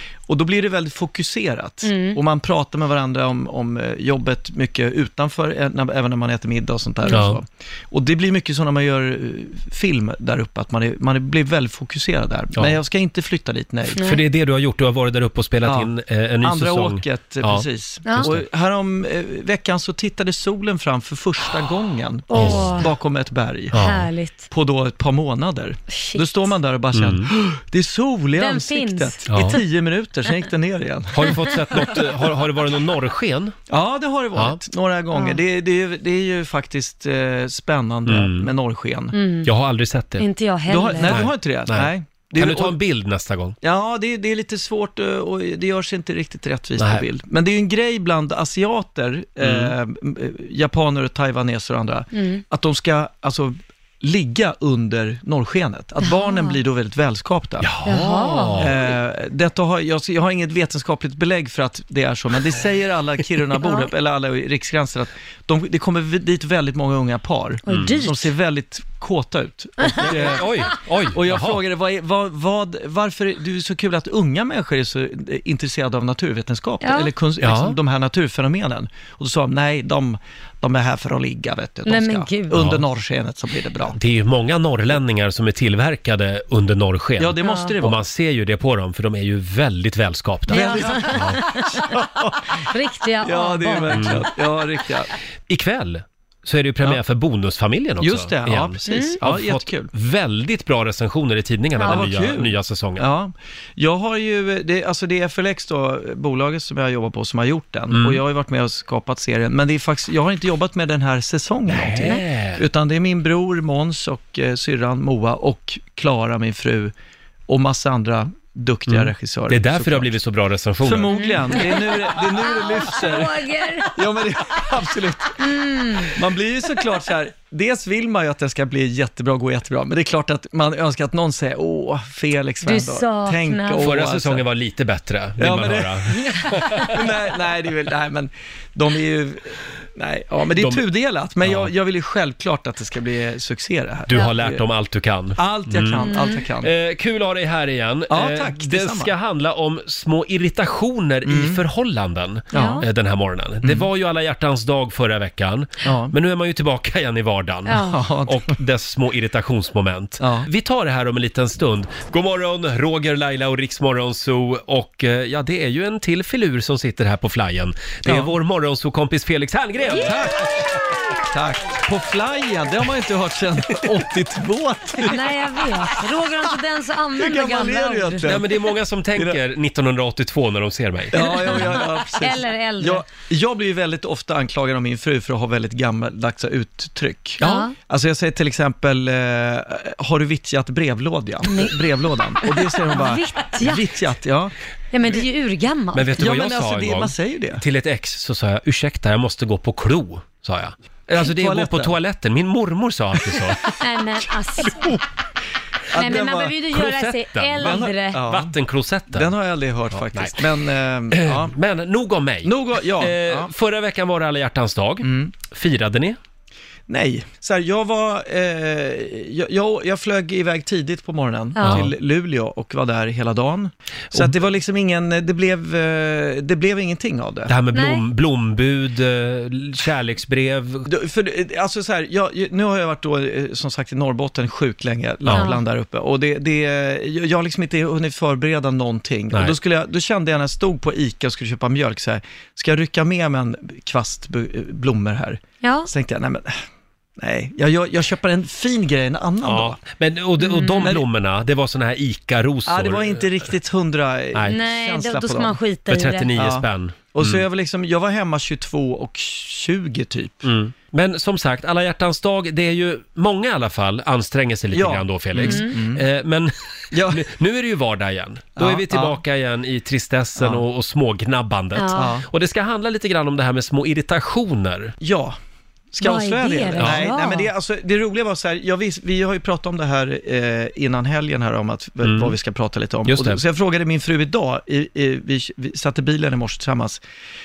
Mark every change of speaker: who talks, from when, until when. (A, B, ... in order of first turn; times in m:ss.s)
0:00.3-0:14.1 A
0:01.8-0:02.2 B
0:07.1-0:07.4 C
0:14.0-0:18.4 C
0:15.6-0:15.9 A
0:16.4-0:23.8 A
0:22.3-0:22.9 B
0:22.4-0:22.8 C
0:23.7-0:24.1 C
0:23.7-0:24.5 B
0:24.5-0:31.5 A
0:25.9-0:26.5 B
0:26.9-0:27.3 C
0:28.4-0:29.2 B
0:29.3-0:29.6 C
0:31.1-0:33.6 C
0:33.7-0:39.2 A
0:35.1-0:35.4 B
0:38.1-0:38.5 C
0:39.1-0:39.5 B
0:39.4-0:40.2 C
0:40.2-0:41.3 B
0:40.7-0:42.8 A
0:41.0-0:43.6 C
0:43.6-0:57.7 A
0:46.8-0:47.0 C
0:49.4-0:49.7 C
0:52.1-0:52.4 B
0:56.0-0:56.6 B
0:57.6-0:58.7 C
0:57.8-0:58.9 B
0:58.6-1:24.0 A
1:03.6-1:03.9 B
1:07.6-1:08.3 B
1:07.7-1:08.0 C
1:09.8-1:10.1 B
1:10.0-1:11.6 C
1:16.8-1:17.1 B
1:17.4-1:17.7 C
1:21.8-1:22.6 B
1:22.5-1:22.8 C
1:23.9-1:31.4 C
1:27.2-1:28.0 A
1:27.4-1:27.7 B
1:30.5-1:32.0 B
1:30.5-1:32.7 A
1:32.6-1:34.3 B
1:33.2-1:35.1 A
1:33.9-1:34.2 C
1:35.5-1:43.0 C
1:38.0-1:39.9 A
1:38.9-1:39.2 B
1:41.8-1:42.1 B
1:41.8-1:56.9 A
1:47.9-1:48.2 C
1:51.7-1:52.6 C
1:57.5-2:00.1 A
1:58.9-2:01.1 C
2:00.8-2:14.4 A
2:01.1-2:04.0 B
2:05.4-2:06.2 B
2:12.6-2:13.9 B
2:13.8-2:16.9 C
2:15.4-2:24.6 A
2:20.6-2:20.8 C
2:21.4-2:21.7 C
2:24.1-2:26.0 C
2:25.4-2:26.7 A
2:26.0-2:26.4 B
2:26.6-2:50.1 C
2:28.1-2:29.1 A
2:31.2-2:31.6 A
2:32.5-2:32.8 A
2:32.5-2:32.9 B
2:33.6-2:33.9 A
2:35.8-2:36.1 A
2:37.7-2:38.0 B
2:37.8-2:38.5 A
2:40.2-2:40.5 A
2:48.0-2:48.3 A
2:49.9-2:56.1 A
2:55.0-2:58.3 B
2:57.2-2:58.6 A
2:58.2-3:01.3 C
3:01.1-3:14.5 A
3:01.2-3:03.1 B
3:07.4-3:07.7 B
3:11.4-3:11.8 B
3:12.4-3:13.9 B
3:14.9-3:16.2 B
3:15.9-3:23.6 C
3:16.2-3:17.6 A
3:21.1-3:22.0 A
3:23.3-3:23.7 A
3:23.8-3:25.0 B
3:24.6-3:25.0 A
3:25.9-3:26.5 A
3:25.9-3:28.2 B
3:26.7-3:29.3 C
3:27.6-3:28.6 A
3:29.1-3:31.5 A
3:29.9-3:30.4 C
3:31.1-3:36.2 C
3:32.4-3:33.5 A
3:35.0-3:35.3 A
3:36.9-3:47.5 A
3:41.6-3:41.9 B
3:41.6-3:41.9 C
3:47.5-3:50.9 C
3:47.7-3:48.0 B
3:50.9-4:06.6 A
3:55.2-3:55.5 C
3:55.3-3:55.6 B
4:05.6-4:05.9 B
4:07.2-4:09.8 A
4:09.4-4:13.2 C
4:10.4-4:10.9 B
4:12.7-4:15.6 A
4:14.5-4:16.3 B
4:15.9-4:17.4 C
4:16.3-4:20.4 A
4:20.4-4:34.9 C
4:24.7-4:26.0 A
4:25.4-4:25.7 B
4:26.9-4:27.3 A
4:28.6-4:29.2 A
4:30.4-4:30.6 A
4:31.8-4:32.2 B
4:32.0-4:32.3 A
4:35.0-4:35.4 A
4:35.9-4:47.0 A
4:36.0-4:37.5 B
4:36.8-4:37.1 C
4:42.0-4:42.3 C
4:43.1-4:43.4 C